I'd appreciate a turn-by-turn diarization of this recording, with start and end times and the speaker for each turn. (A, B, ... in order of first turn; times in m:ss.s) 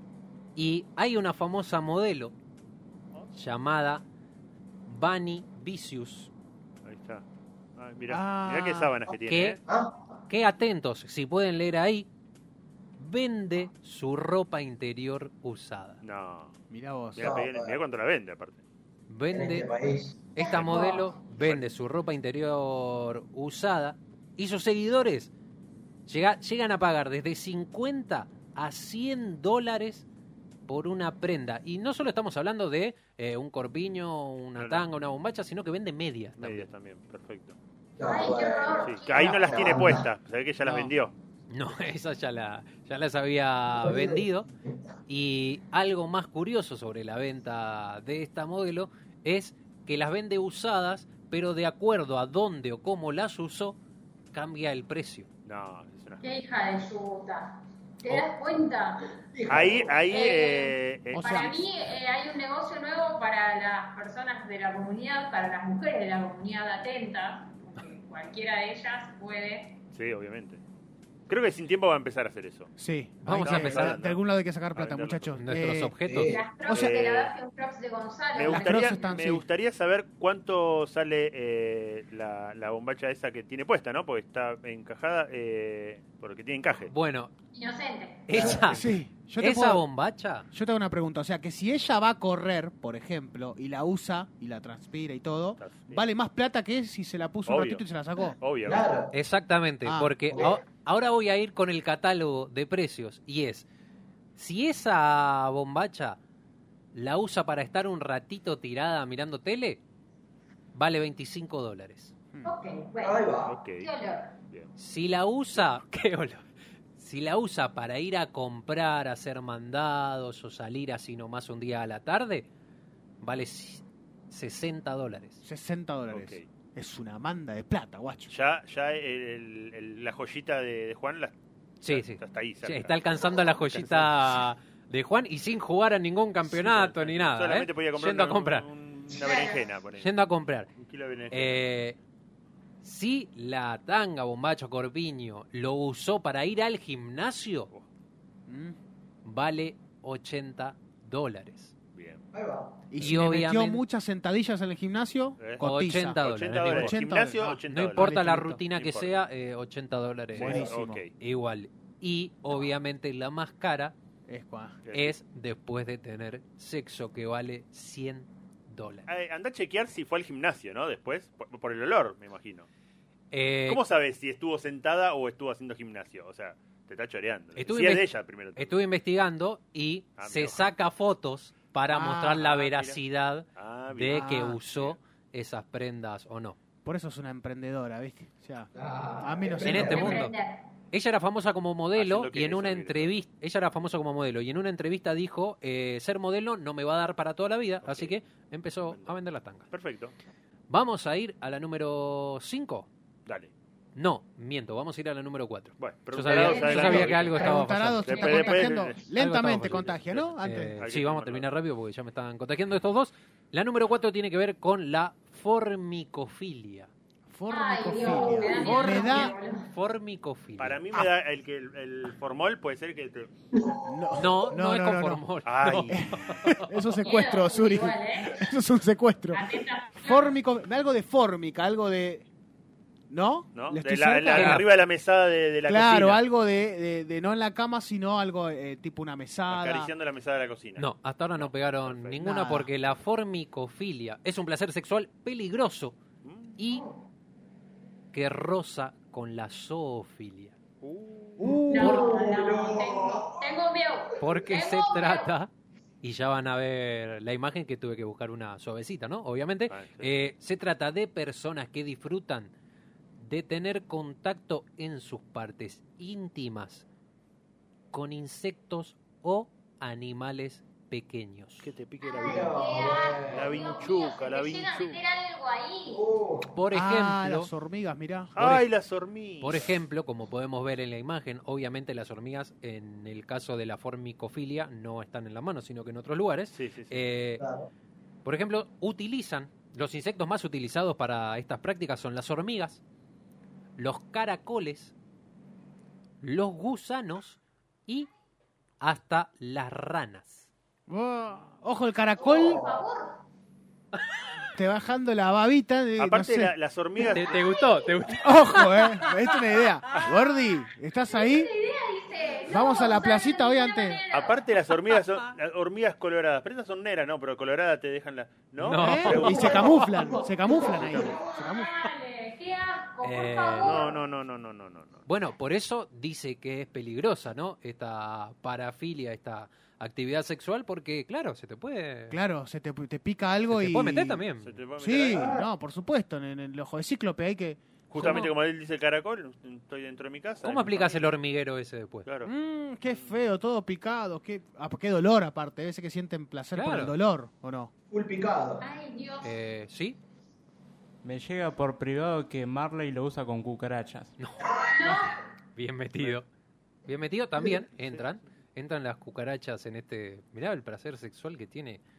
0:00.6-0:02.3 A
0:03.3-0:04.0 A
0:04.9-0:06.3 A
0:06.8-0:07.2 B
0:07.8-0:09.6 B
0:08.1-0:08.9 C
0:09.3-0:09.6 A
0:09.6-0:10.2 D
0:10.3-0:12.1 A
0:13.0-0:16.0 A
0:16.0-0:16.5 B
0:16.7-0:17.3 C
0:17.1-0:18.6 B
0:17.2-0:17.8 D
0:19.1-0:19.7 A
0:19.3-0:21.0 D
0:20.3-0:25.3 A
0:20.5-0:20.8 B
0:21.4-0:21.6 B
0:26.1-0:30.0 A
0:30.7-0:36.7 A
0:34.6-0:34.9 B
0:36.4-0:37.6 B
0:38.0-0:40.1 D
0:38.0-0:39.7 E
0:38.8-0:41.1 B
0:41.5-0:44.5 A
0:43.8-0:44.2 D
0:45.1-0:53.8 A
0:54.3-0:55.3 A
0:55.4-0:56.2 B
0:56.2-0:59.1 E
0:59.3-1:00.3 D
0:59.5-1:01.6 B
1:00.1-1:09.7 E
1:01.1-1:01.5 C
1:09.9-1:10.6 B
1:11.3-1:12.7 B
1:12.8-1:16.0 C
1:13.2-1:14.0 A
1:13.4-1:14.2 B
1:14.7-1:15.4 B
1:15.4-1:16.3 A
1:16.0-1:16.8 D
1:16.3-1:19.2 E
1:16.7-1:17.3 B
1:18.3-1:26.9 B
1:18.5-1:19.4 C
1:26.9-1:27.3 A
1:27.5-1:28.4 E
1:28.3-1:30.4 A
1:28.3-1:28.6 D
1:28.7-1:29.8 C
1:30.5-1:38.4 C
1:35.6-1:36.0 B
1:37.4-1:37.8 B
1:38.4-1:38.9 B
1:38.6-1:39.1 D
1:39.1-1:43.6 A
1:39.8-1:40.1 C
1:40.3-1:40.6 D
1:44.4-1:46.2 A
1:46.9-1:49.8 A
1:50.7-1:52.1 A
1:52.4-1:54.3 E
1:53.0-1:53.6 D
1:53.5-1:53.9 B
1:54.8-1:56.4 A
1:57.0-2:02.5 A
2:03.2-2:05.4 A
2:05.4-2:08.3 C
2:06.1-2:06.4 B
2:08.3-2:11.3 B
2:11.8-2:18.6 A
2:11.8-2:13.0 B
2:13.7-2:14.2 B
2:16.4-2:20.1 B
2:19.1-2:19.6 E
2:20.0-2:20.7 A
2:20.8-2:21.6 B
2:21.3-2:22.0 A
2:22.8-2:27.7 A
2:28.5-2:28.8 C
2:29.2-2:31.7 A
2:31.9-2:32.2 B
2:32.3-2:32.9 D
2:32.9-2:38.6 C
2:33.0-2:33.8 A
2:35.4-2:39.2 B
2:35.6-2:37.0 A
2:37.7-2:43.9 A
2:40.3-2:41.1 B
2:40.3-2:41.0 C
2:44.3-2:44.8 C
2:44.8-2:45.1 B
2:44.9-2:49.1 A
2:49.1-2:52.7 B
2:53.3-2:53.8 A
2:53.7-2:58.8 B
2:57.6-3:06.6 A
3:00.2-3:00.7 B
3:01.9-3:02.4 C
3:02.4-3:03.0 B
3:03.6-3:05.0 B
3:04.1-3:04.6 C
3:06.8-3:08.7 C
3:08.7-3:10.2 D
3:09.2-3:10.1 C
3:09.6-3:10.4 A
3:09.7-3:10.6 E
3:10.9-3:19.7 A
3:12.0-3:13.1 B
3:17.8-3:18.1 B
3:18.9-3:19.2 B
3:19.7-3:20.1 B
3:20.7-3:22.9 A
3:23.2-3:23.5 B
3:24.0-3:28.1 A
3:25.8-3:29.0 B
3:26.3-3:28.7 E
3:26.7-3:30.7 C
3:29.1-3:36.9 A
3:29.6-3:31.5 B
3:37.3-3:39.3 C
3:37.5-3:39.7 E
3:38.1-3:38.6 D
3:38.6-3:40.8 A
3:40.6-3:43.3 B
3:43.5-3:44.3 D
3:43.9-3:45.2 C
3:44.2-3:46.8 A
3:45.4-3:46.4 B
3:45.9-3:49.4 C
3:47.0-3:48.4 E
3:49.3-3:50.3 E
3:50.0-3:52.3 C
3:53.1-3:54.6 C
3:53.5-3:56.2 B
3:54.3-3:54.6 A
3:55.7-3:59.9 C
3:59.5-4:02.2 B
4:00.8-4:06.0 A
4:02.2-4:02.7 C
4:06.2-4:06.6 B
4:06.6-4:06.8 A
4:06.7-4:06.9 D
4:08.1-4:10.5 A
4:10.8-4:11.4 B
4:11.4-4:12.1 C
4:11.4-4:13.5 D
4:11.7-4:15.3 E
4:14.2-4:15.5 A
4:16.0-4:22.5 A
4:19.7-4:20.2 B
4:23.2-4:26.8 A
4:27.9-4:31.7 A
4:31.6-4:32.5 B
4:32.0-4:36.0 E
4:32.2-4:33.6 D
4:33.3-4:35.0 B
4:35.9-4:36.5 D
4:36.5-4:37.5 A
4:36.7-4:38.6 C
4:38.3-4:39.7 B
4:39.4-4:47.4 A
4:46.5-4:47.0 B
4:47.4-4:47.7 D
4:48.2-4:52.8 A
4:53.8-4:54.9 A
4:56.2-4:58.1 A
4:58.8-5:00.5 A
5:00.9-5:02.6 C
5:02.2-5:02.8 D
5:02.4-5:03.2 E
5:04.5-5:06.5 C
5:06.0-5:07.4 B
5:07.1-5:09.2 A
5:07.3-5:07.9 E
5:08.2-5:11.5 C
5:11.1-5:14.4 E
5:12.5-5:14.0 C
5:14.1-5:19.9 B
5:18.6-5:19.5 A
5:18.7-5:21.7 C
5:19.2-5:21.2 D
5:21.1-5:24.0 E
5:23.0-5:23.8 A
5:23.6-5:25.0 B
5:25.1-5:32.2 A
5:32.1-5:34.2 C
5:33.5-5:34.6 A
5:34.4-5:35.3 B
5:34.8-5:37.6 C
5:35.1-5:35.5 D
5:37.9-5:41.1 B
5:37.9-5:38.3 A
5:40.4-5:42.0 A
5:42.0-5:42.3 B
5:42.2-5:47.7 C
5:42.8-5:43.1 B
5:46.5-5:47.0 A
5:47.9-5:48.6 D
5:48.6-5:49.4 E
5:49.2-5:50.0 A
5:51.0-5:54.1 F
5:54.2-5:54.5 A
5:54.6-5:55.2 E
5:55.6-5:56.3 A
5:56.8-6:01.8 A
5:57.8-5:58.0 B